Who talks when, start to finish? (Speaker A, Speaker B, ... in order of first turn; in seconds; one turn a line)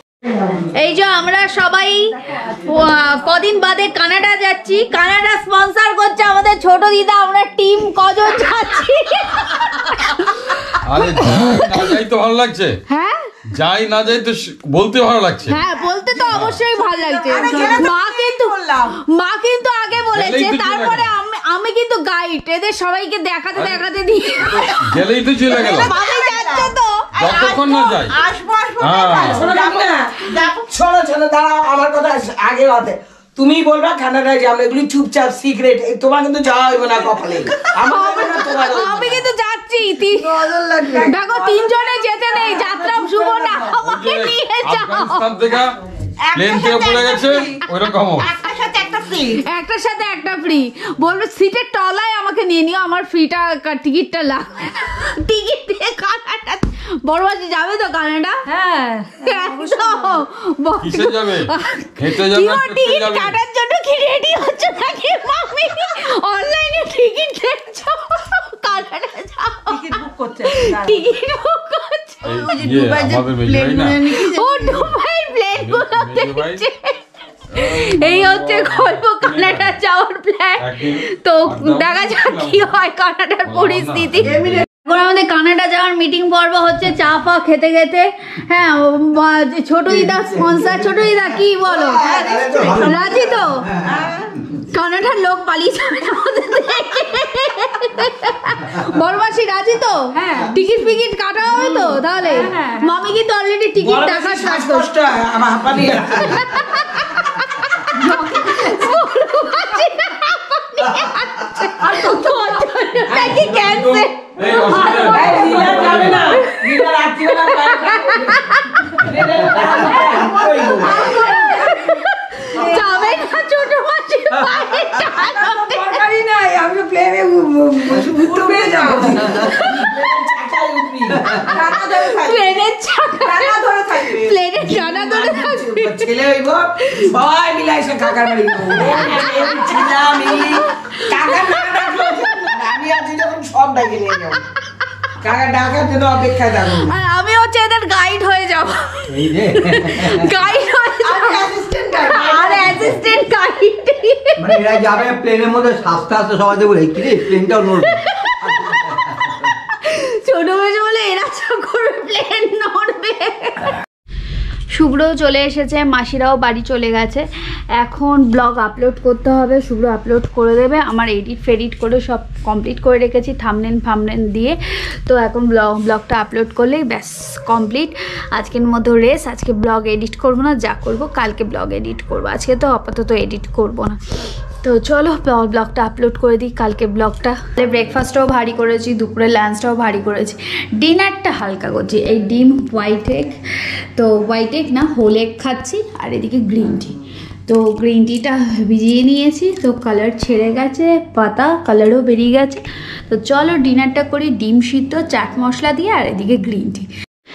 Speaker A: 0.5-11.8
Speaker B: 10.8-12.8
Speaker A: 12.9-13.3
Speaker B: 13.5-15.6
Speaker A: 15.5-18.6
Speaker C: 15.9-18.9
Speaker B: 16.2-16.6
Speaker A: 19.1-24.8
Speaker B: 20.0-21.1
Speaker B: 23.6-23.9
Speaker B: 24.4-25.9
Speaker A: 25.5-27.1
Speaker C: 25.7-30.6
Speaker B: 27.1-28.2
Speaker B: 28.8-29.6
Speaker D: 29.3-39.2
Speaker A: 37.8-40.4
Speaker C: 40.1-41.1
Speaker A: 41.0-45.3
Speaker E: 41.3-41.6
Speaker C: 43.1-43.6
Speaker B: 43.8-45.8
Speaker C: 46.2-47.5
Speaker B: 46.3-48.3
Speaker C: 48.2-49.4
Speaker A: 49.4-58.4
Speaker E: 58.5-60.2
Speaker A: 59.2-72.3
Speaker B: 60.8-63.4
Speaker E: 69.7-71.0
Speaker B: 72.2-74.1
Speaker C: 72.2-74.6
Speaker A: 74.1-77.0
Speaker B: 74.6-75.0
Speaker B: 75.5-76.6
Speaker B: 77.5-79.8
Speaker A: 77.5-93.7
Speaker B: 80.6-82.7
Speaker B: 83.4-84.7
Speaker C: 84.2-84.6
Speaker C: 91.8-92.9
Speaker F: 92.3-93.4
Speaker C: 93.8-94.3
Speaker A: 94.6-104.9
Speaker E: 100.1-100.6
Speaker E: 101.4-102.9
Speaker D: 103.8-106.4
Speaker A: 106.2-115.5
Speaker E: 108.0-108.8
Speaker E: 111.8-112.7
Speaker B: 113.2-116.3
Speaker E: 114.7-118.3
Speaker D: 115.3-118.1
Speaker A: 116.3-116.8
Speaker A: 117.5-119.0
Speaker E: 118.9-122.0
Speaker D: 119.1-121.0
Speaker A: 119.9-126.0
Speaker E: 122.5-123.2
Speaker E: 125.0-129.7
Speaker C: 128.7-129.0
Speaker D: 129.0-131.7
Speaker A: 129.3-130.1
Speaker E: 131.4-132.5
Speaker A: 131.5-136.1
Speaker E: 133.2-134.2
Speaker D: 134.6-144.4
Speaker A: 136.8-137.1
Speaker A: 138.2-142.5
Speaker D: 145.2-146.9
Speaker A: 146.7-151.5
Speaker F: 149.1-150.3
Speaker C: 151.0-152.9
Speaker A: 152.0-154.5
Speaker F: 154.4-159.4
Speaker A: 157.8-163.8
Speaker A: 164.7-184.0
Speaker A: 184.6-193.4
Speaker A: 193.9-206.9